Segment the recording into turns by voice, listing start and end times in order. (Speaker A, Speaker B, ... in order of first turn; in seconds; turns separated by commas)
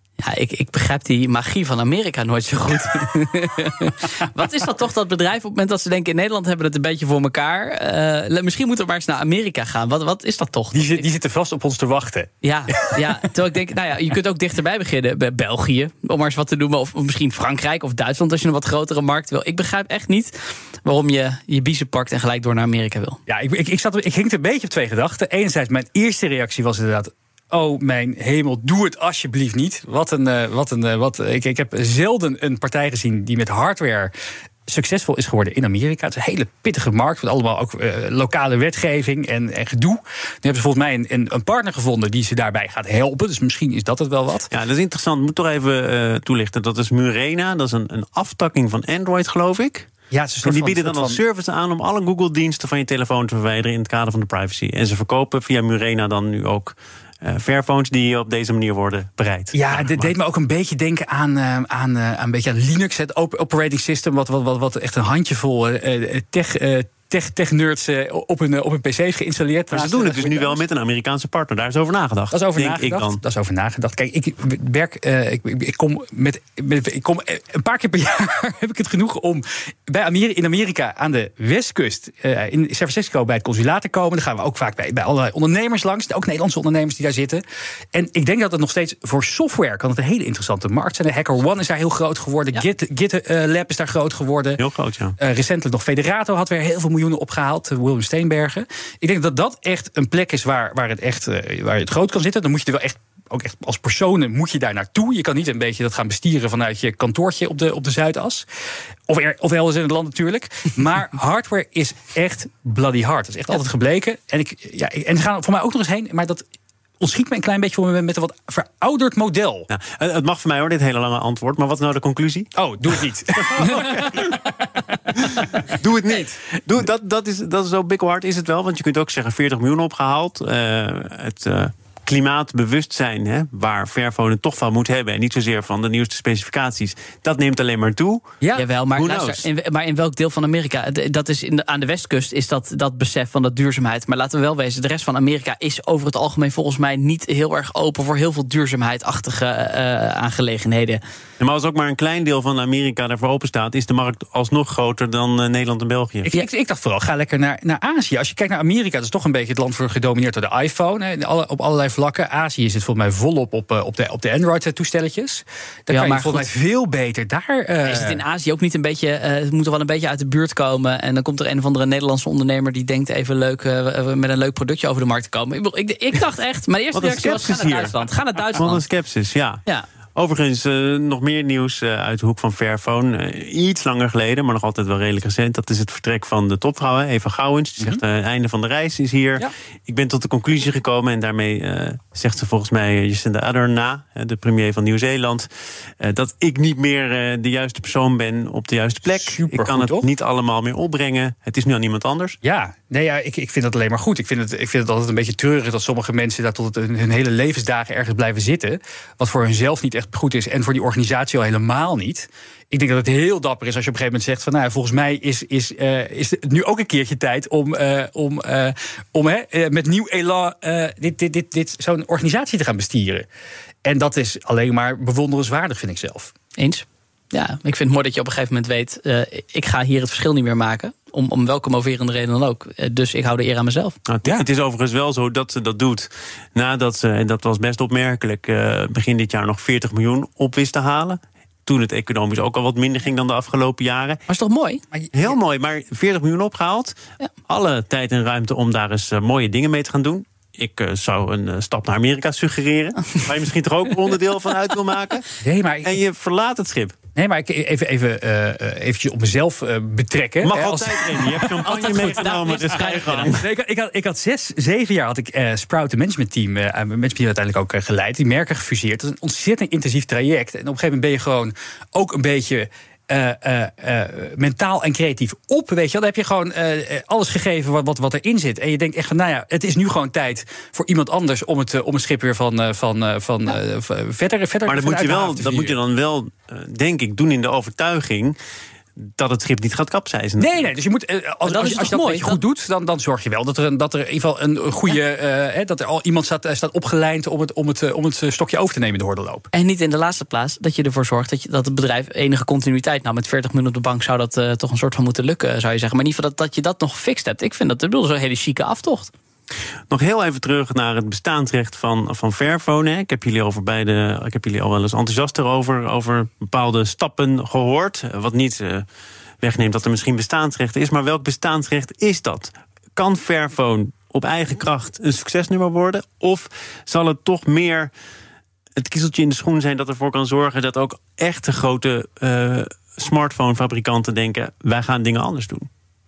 Speaker A: 0.2-11.1, Speaker B: 10.7-13.2, Speaker A: 12.4-23.2, Speaker B: 23.3-34.1, Speaker B: 34.7-44.5, Speaker C: 44.5-49.9, Speaker B: 50.1-51.2, Speaker C: 50.4-60.1, Speaker B: 59.5-70.6, Speaker C: 69.7-73.2, Speaker B: 72.3-87.4, Speaker B: 87.9-94.6, Speaker C: 94.6-95.2, Speaker B: 95.2-108.5, Speaker B: 109.1-116.4, Speaker B: 117.0-119.7, Speaker C: 119.7-122.5, Speaker B: 122.5-125.8, Speaker C: 123.3-124.3, Speaker C: 125.2-138.3, Speaker A: 138.5-151.0, Speaker C: 138.9-139.4, Speaker C: 151.4-156.3, Speaker B: 156.2-168.2, Speaker A: 165.9-166.4, Speaker A: 167.8-178.8, Speaker C: 176.9-178.0, Speaker C: 178.5-179.6, Speaker C: 180.1-195.5, Speaker C: 196.0-202.4, Speaker B: 199.0-200.1, Speaker B: 202.4-223.3, Speaker B: 223.8-226.3, Speaker A: 226.6-234.0, Speaker C: 234.1-244.2, Speaker A: 244.3-244.8, Speaker B: 244.9-245.2, Speaker C: 245.1-255.3, Speaker B: 255.4-256.0, Speaker C: 255.8-257.0, Speaker B: 257.1-285.8, Speaker C: 260.4-263.4, Speaker A: 261.7-263.4, Speaker C: 284.6-288.4, Speaker C: 289.0-290.7, Speaker B: 290.4-299.5, Speaker A: 291.4-292.4, Speaker A: 299.5-309.1, Speaker C: 309.9-318.9, Speaker C: 319.4-327.9, Speaker C: 328.8-335.7